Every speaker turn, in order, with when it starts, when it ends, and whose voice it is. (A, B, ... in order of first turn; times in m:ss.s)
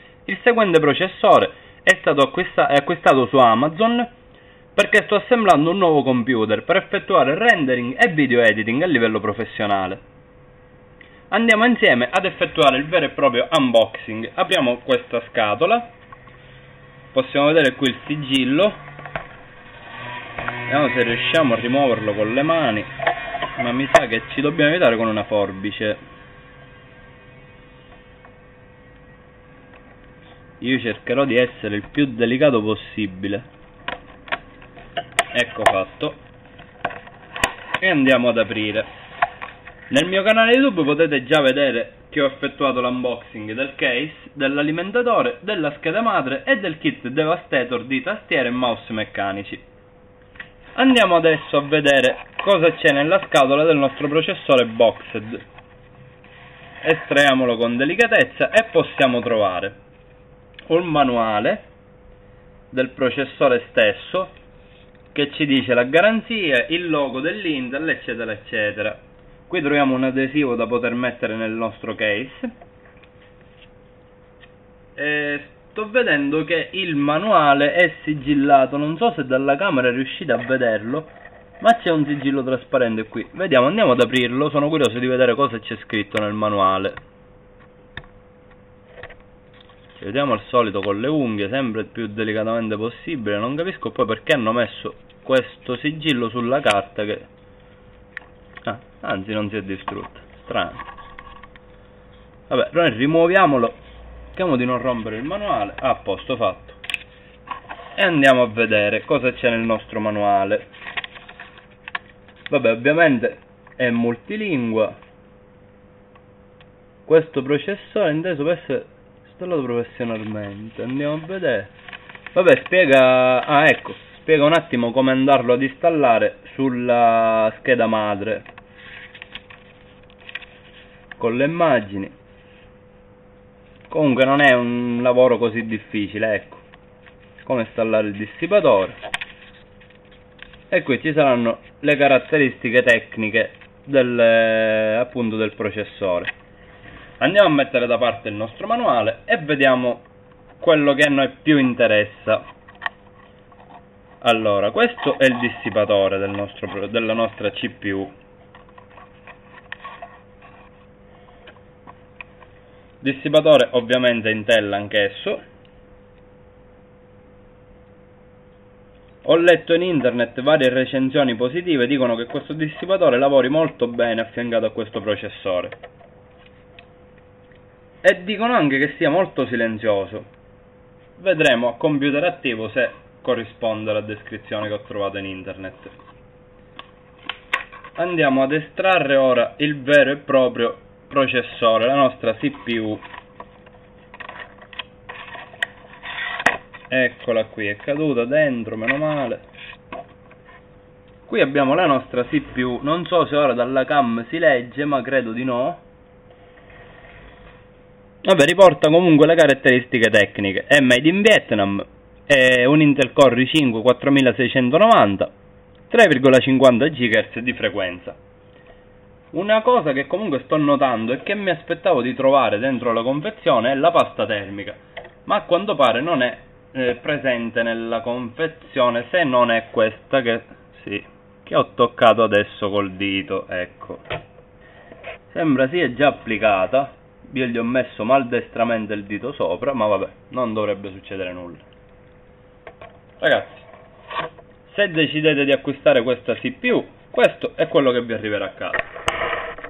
0:00.2-0:04.1 A
0:04.7-0:10.0 A
0:11.3-0:15.9 A
0:17.1-0:18.8 A
0:20.7-0:22.9 A
0:23.6-0:26.0 A
0:30.6-0:33.4 A
0:35.3-0:36.2 A
0:37.8-0:38.9 A
0:39.9-0:49.6 A
0:50.7-0:55.4 A
0:56.8-0:59.8 A
1:00.7-1:01.6 A
1:02.7-1:04.3 A
1:05.1-1:12.5 A
1:15.0-1:27.0 A
1:30.0-1:37.3 A
1:38.6-1:40.9 A
1:42.5-1:43.8 A
1:44.3-1:46.8 A
1:47.9-1:50.7 A
1:52.5-1:55.0 A
1:57.0-2:01.7 A
2:02.3-2:08.5 A
2:11.2-2:12.1 A
2:13.9-2:16.6 A
2:17.4-2:19.0 A
2:20.7-2:26.3 A
2:27.2-2:30.0 A
2:30.6-2:32.4 A
2:34.2-2:38.1 A
2:43.0-2:45.4 A
2:49.2-2:55.8 A
2:58.0-3:00.3 A
3:01.2-3:05.9 A
3:07.9-3:13.0 A
3:16.9-3:19.4 A
3:21.3-3:25.8 A
3:28.2-3:35.3 A
3:35.9-3:38.2 A
3:39.3-3:54.0 A
3:55.3-4:01.6 A
4:03.2-4:03.7 A
4:04.6-4:08.9 A